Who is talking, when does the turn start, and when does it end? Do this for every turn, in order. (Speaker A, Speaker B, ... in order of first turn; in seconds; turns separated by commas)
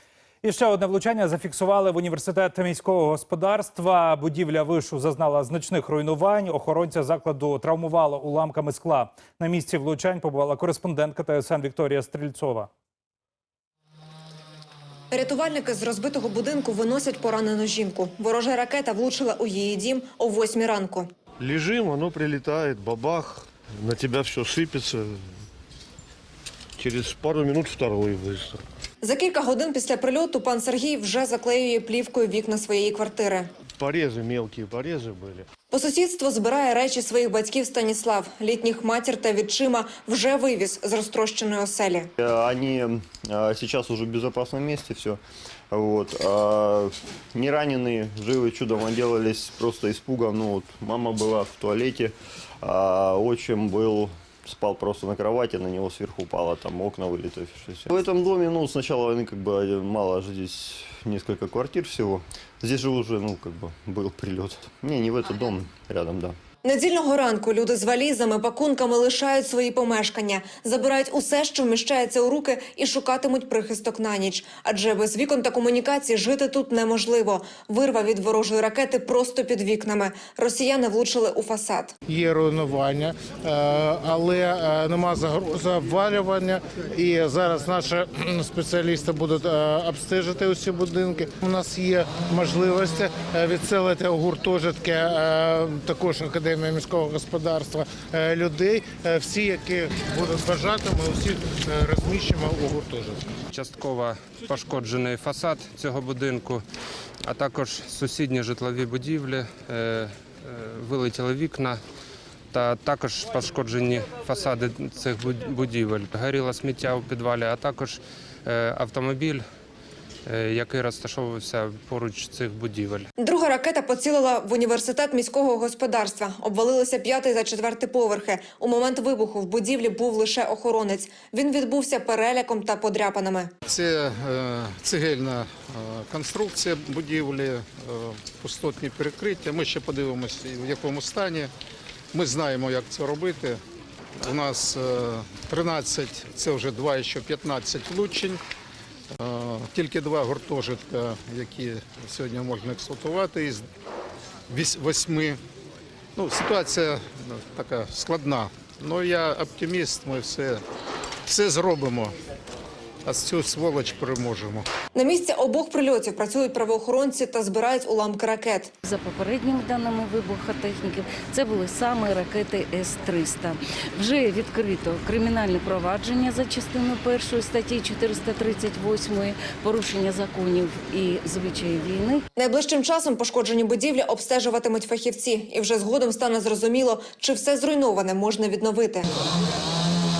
Speaker A: 0.4-12.7, Speaker B: 15.1-21.1, Speaker C: 21.4-25.2, Speaker C: 26.8-28.6, Speaker B: 29.0-33.5, Speaker C: 33.8-35.5, Speaker B: 35.7-42.1, Speaker D: 42.2-45.2, Speaker D: 45.7-66.4, Speaker B: 66.6-81.9, Speaker E: 82.1-103.2, Speaker F: 103.5-106.6, Speaker F: 107.2-111.8, Speaker F: 112.5-119.4, Speaker F: 120.3-123.1, Speaker B: 123.2-133.5, Speaker G: 133.7-141.5, Speaker G: 142.1-143.6, Speaker G: 144.1-148.4, Speaker G: 149.2-153.7, Speaker G: 154.5-155.4, Speaker G: 156.2-160.6, Speaker G: 161.3-162.1, Speaker G: 163.1-164.7, Speaker B: 164.9-168.7, Speaker H: 168.8-182.2, Speaker B: 182.4-189.1